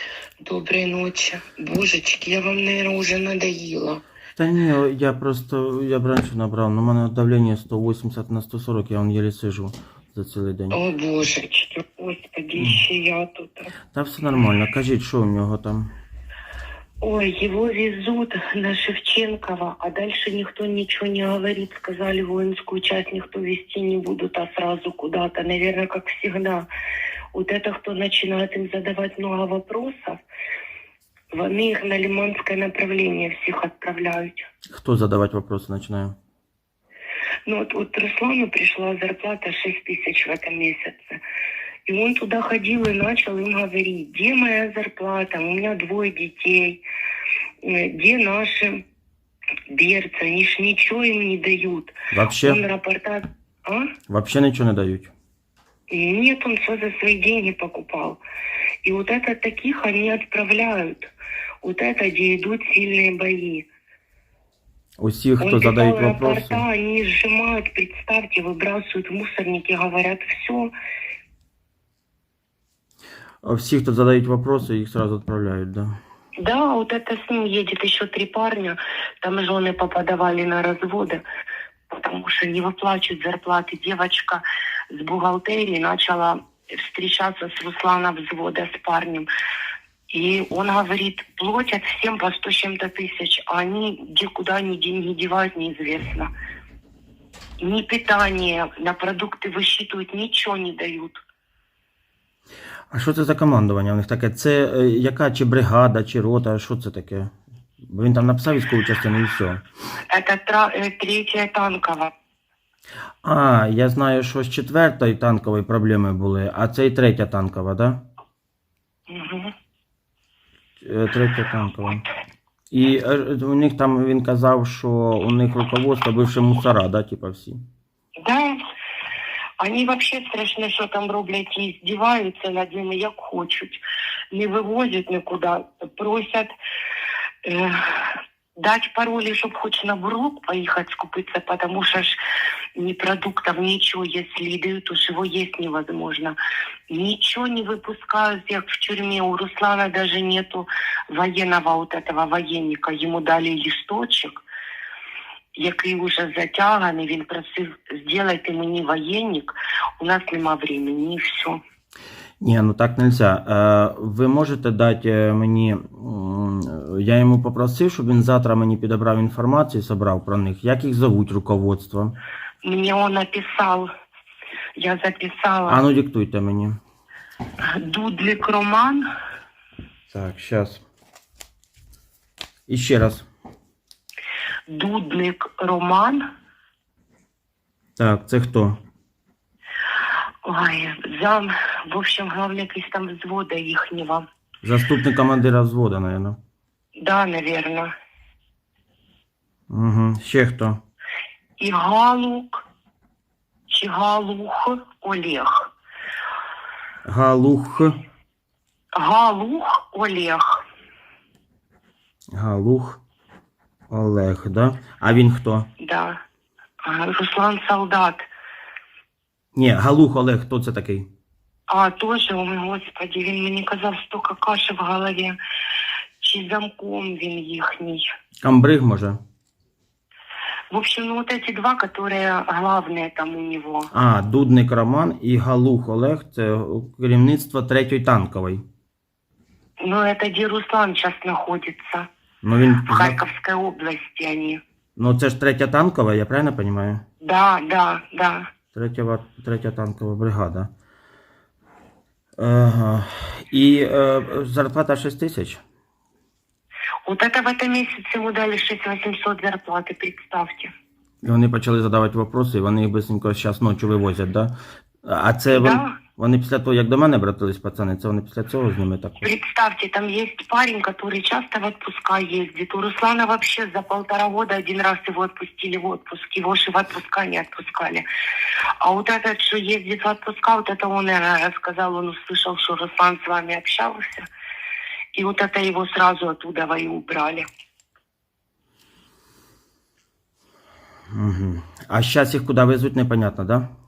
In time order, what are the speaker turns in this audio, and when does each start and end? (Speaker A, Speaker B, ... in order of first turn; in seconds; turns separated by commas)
Speaker A: 0.4-4.0, Speaker B: 4.4-10.8, Speaker A: 10.7-13.7, Speaker B: 12.6-12.8, Speaker B: 13.9-15.9, Speaker A: 17.0-26.7, Speaker A: 27.3-30.2, Speaker A: 31.3-34.5, Speaker B: 34.7-36.1, Speaker A: 37.5-41.2, Speaker A: 41.9-46.8, Speaker A: 47.6-48.8, Speaker A: 49.7-53.9, Speaker B: 52.1-52.6, Speaker B: 54.1-55.1, Speaker A: 55.9-58.2, Speaker A: 58.8-61.1, Speaker A: 61.6-63.7, Speaker B: 65.0-66.6, Speaker A: 65.4-70.7, Speaker B: 73.4-75.9, Speaker A: 76.4-81.2, Speaker A: 81.9-89.3, Speaker A: 90.1-96.3, Speaker A: 97.6-101.2, Speaker B: 102.9-109.6, Speaker A: 110.1-112.1, Speaker B: 113.2-118.0, Speaker A: 119.1-119.5, Speaker B: 120.8-122.0, Speaker B: 122.7-127.6, Speaker A: 128.2-128.6, Speaker A: 129.6-133.8, Speaker A: 134.3-136.5, Speaker A: 137.4-142.2, Speaker A: 142.8-146.3, Speaker A: 146.9-154.4, Speaker A: 155.5-161.6, Speaker B: 162.4-172.1, Speaker A: 172.6-173.9, Speaker A: 174.8-175.8, Speaker B: 175.7-176.8, Speaker A: 177.6-179.0, Speaker B: 180.1-180.8, Speaker B: 182.7-183.2, Speaker A: 184.7-186.2, Speaker B: 188.0-188.8, Speaker A: 190.4-194.2, Speaker B: 194.6-196.4, Speaker A: 197.0-197.9, Speaker B: 199.7-200.8, Speaker A: 201.6-202.6, Speaker A: 203.7-205.7, Speaker B: 207.0-208.0, Speaker A: 208.9-210.6, Speaker B: 212.3-213.0, Speaker B: 213.9-215.7, Speaker A: 215.8-216.2, Speaker A: 216.8-218.2, Speaker B: 219.5-221.1, Speaker A: 221.7-225.3, Speaker A: 226.2-228.0, Speaker B: 228.4-229.2, Speaker A: 230.7-233.9, Speaker B: 233.9-238.6, Speaker A: 239.8-242.1, Speaker B: 242.4-243.2, Speaker A: 242.8-244.6, Speaker B: 245.0-247.0, Speaker A: 247.2-248.5, Speaker B: 248.7-250.7, Speaker B: 252.4-255.6, Speaker A: 257.0-260.7, Speaker B: 261.2-264.5, Speaker B: 265.0-269.3, Speaker A: 265.5-265.9, Speaker A: 269.2-278.0, Speaker A: 278.8-284.3, Speaker A: 285.1-287.4, Speaker B: 291.1-293.7